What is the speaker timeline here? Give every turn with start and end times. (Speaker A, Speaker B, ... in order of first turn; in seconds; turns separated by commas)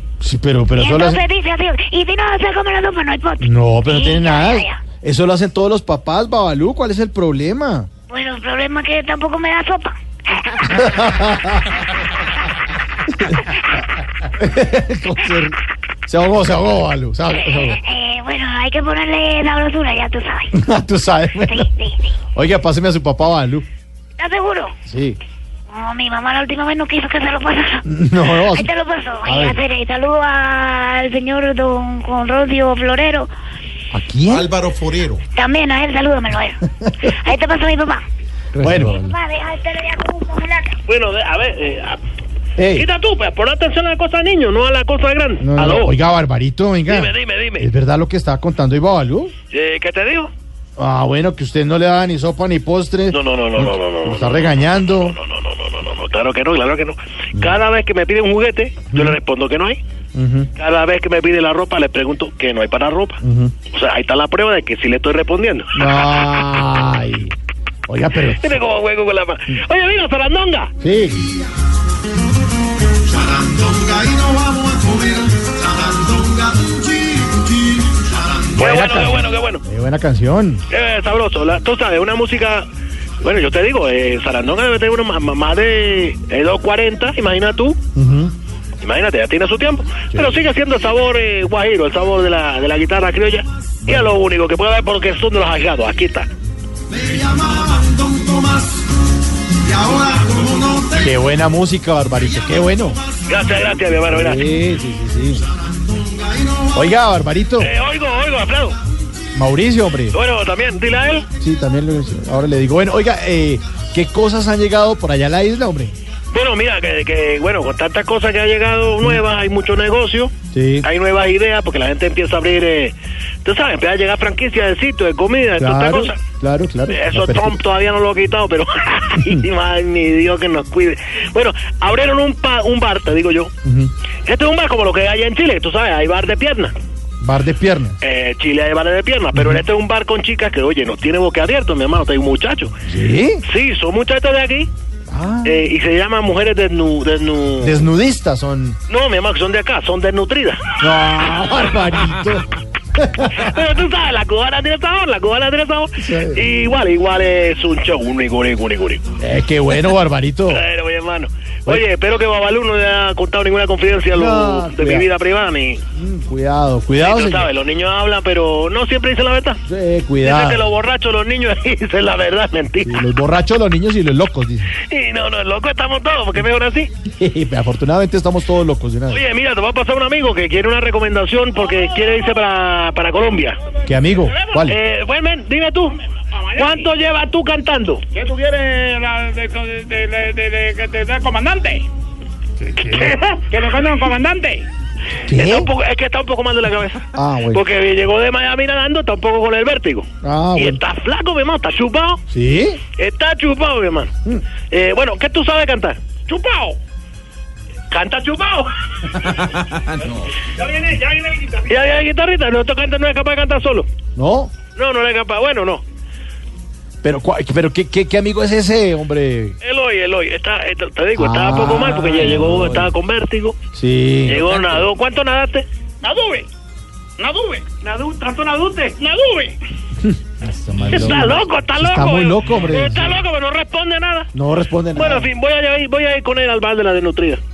Speaker A: 0.2-1.2, Speaker B: 0.8-4.8, Speaker A: 3.4-7.9, Speaker B: 8.1-10.6, Speaker A: 10.6-11.9, Speaker A: 13.1-13.4, Speaker A: 14.2-17.8, Speaker B: 17.4-20.5, Speaker A: 20.5-21.7, Speaker B: 21.5-22.1, Speaker A: 22.3-23.6, Speaker B: 24.2-24.7, Speaker A: 24.9-25.2, Speaker B: 25.7-27.8, Speaker A: 27.9-28.7, Speaker B: 28.5-33.3, Speaker A: 29.2-29.6, Speaker A: 33.9-34.5, Speaker C: 34.3-35.2, Speaker B: 35.3-38.0, Speaker A: 38.6-39.0, Speaker B: 38.8-40.8, Speaker D: 40.9-42.0, Speaker A: 42.6-42.9, Speaker D: 42.7-46.0, Speaker A: 45.4-49.3, Speaker D: 46.9-47.7, Speaker D: 49.5-50.3, Speaker A: 50.8-55.1, Speaker D: 53.1-59.8, Speaker A: 58.9-59.2, Speaker A: 60.1-60.5, Speaker D: 60.6-66.3, Speaker A: 63.2-63.5, Speaker A: 65.7-67.3, Speaker A: 67.9-68.5, Speaker D: 68.3-70.7, Speaker A: 70.8-71.3, Speaker C: 73.1-78.2, Speaker D: 78.5-79.6, Speaker A: 78.6-80.6, Speaker D: 80.7-82.7, Speaker D: 83.2-87.8, Speaker A: 87.9-88.3, Speaker D: 88.8-96.3, Speaker A: 90.1-90.4, Speaker A: 93.8-94.1, Speaker C: 96.9-98.8, Speaker C: 99.6-101.0, Speaker A: 101.0-103.0, Speaker D: 103.3-104.4, Speaker A: 104.1-105.5, Speaker C: 105.9-106.7, Speaker A: 106.7-107.7, Speaker D: 107.6-108.8, Speaker A: 109.3-110.2, Speaker D: 110.1-111.3, Speaker A: 111.4-115.9, Speaker D: 116.3-120.3, Speaker A: 120.5-120.9, Speaker D: 120.8-126.2, Speaker A: 125.6-127.6, Speaker D: 126.9-133.5, Speaker A: 133.6-133.9, Speaker D: 134.2-136.7, Speaker A: 137.2-138.0, Speaker D: 138.0-142.7, Speaker A: 139.3-139.6, Speaker A: 142.8-143.4, Speaker D: 143.4-144.7, Speaker A: 145.1-145.6, Speaker D: 145.4-147.8, Speaker A: 147.6-148.8, Speaker D: 148.9-150.6, Speaker A: 150.8-153.5, Speaker D: 153.3-159.0, Speaker A: 156.0-156.5, Speaker A: 159.2-160.6, Speaker D: 160.5-165.8, Speaker A: 164.1-165.1, Speaker A: 165.9-167.5, Speaker D: 167.0-169.6, Speaker A: 169.7-170.7, Speaker D: 170.2-173.0, Speaker A: 172.8-174.7, Speaker D: 174.9-176.9, Speaker A: 177.1-179.2, Speaker D: 179.1-183.6, Speaker E: 181.8-182.2, Speaker A: 183.8-184.8, Speaker D: 184.6-186.0, Speaker E: 186.4-186.9, Speaker D: 186.5-188.0, Speaker E: 188.1-191.9, Speaker E: 192.8-194.7, Speaker D: 192.8-193.2, Speaker A: 195.3-195.7, Speaker D: 195.3-202.2, Speaker A: 197.2-197.6, Speaker A: 200.2-200.8, Speaker A: 202.3-202.8, Speaker D: 203.0-204.1, Speaker D: 204.7-206.0, Speaker E: 206.3-206.8, Speaker D: 207.9-213.9, Speaker E: 210.8-211.6, Speaker A: 214.2-214.5, Speaker D: 214.7-215.8, Speaker A: 217.0-219.6, Speaker D: 219.6-223.6, Speaker A: 221.2-222.9, Speaker A: 223.7-224.9, Speaker D: 224.2-225.7, Speaker E: 226.0-226.5, Speaker E: 227.2-229.6, Speaker D: 227.8-228.7, Speaker A: 230.0-233.2, Speaker D: 230.9-234.3, Speaker A: 234.3-235.3, Speaker D: 234.9-237.4